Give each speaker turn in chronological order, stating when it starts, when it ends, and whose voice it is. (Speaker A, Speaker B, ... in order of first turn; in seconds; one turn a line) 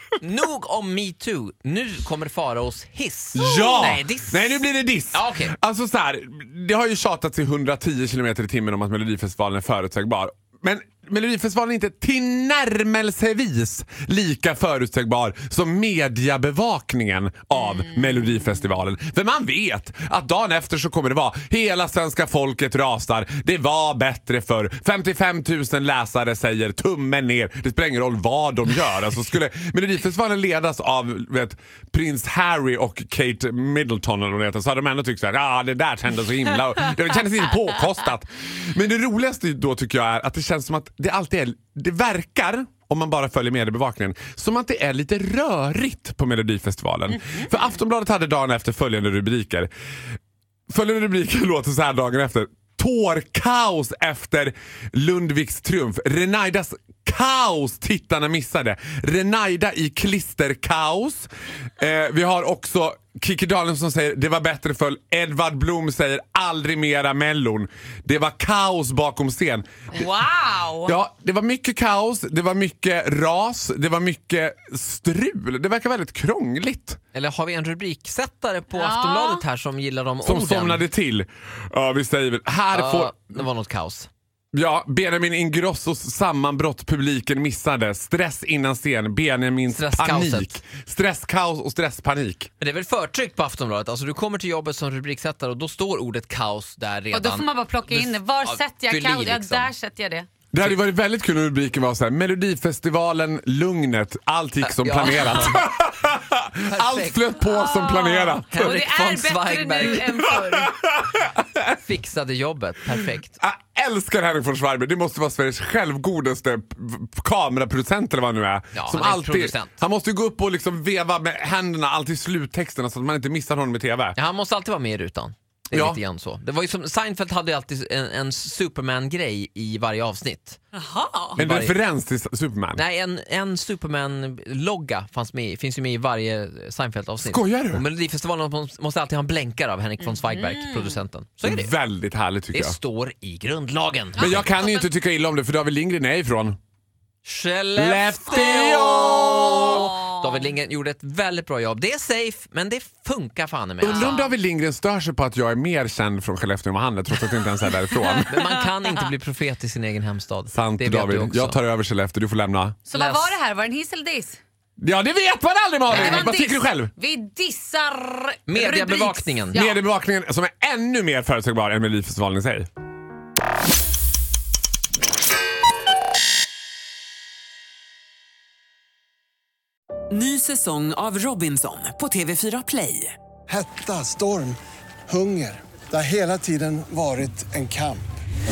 Speaker A: 0.2-5.5
Speaker B: 3.4-49.7
Speaker C: 3.4-3.8
Speaker B: 50.7-69.7
Speaker C: 69.9-71.0
Speaker B: 70.9-77.0
Speaker A: 77.1-80.9
Speaker C: 78.7-79.5
Speaker B: 80.2-83.5
Speaker A: 82.7-84.1
Speaker B: 84.5-92.5
Speaker A: 89.7-90.6
Speaker A: 92.6-99.7
Speaker C: 97.1-100.3
Speaker B: 100.5-108.8
Speaker A: 104.6-105.7
Speaker A: 106.7-107.3
Speaker C: 107.4-110.7
Speaker A: 108.5-110.1
Speaker B: 109.8-111.6
Speaker A: 111.8-113.4
Speaker B: 113.4-124.2
Speaker A: 118.7-119.7
Speaker A: 124.2-130.6
Speaker B: 125.7-126.0
Speaker C: 130.7-131.4
Speaker A: 131.4-131.8
Speaker B: 131.4-132.8
Speaker A: 132.8-141.8
Speaker B: 137.2-137.8
Speaker C: 140.0-141.0
Speaker B: 141.4-142.8
Speaker A: 142.5-144.5
Speaker C: 144.2-144.9
Speaker B: 144.2-146.6
Speaker A: 147.2-154.2
Speaker B: 147.8-149.9
Speaker C: 149.7-150.4
Speaker C: 153.8-154.3
Speaker B: 153.8-158.4
Speaker C: 157.9-158.5
Speaker A: 158.3-161.6
Speaker B: 160.5-162.8
Speaker C: 162.9-164.4
Speaker A: 162.9-163.4
Speaker B: 164.8-166.9
Speaker C: 165.9-169.8
Speaker A: 165.9-166.3
Speaker A: 168.5-169.6
Speaker B: 169.5-172.7
Speaker D: 180.1-183.2
Speaker E: 183.5-188.0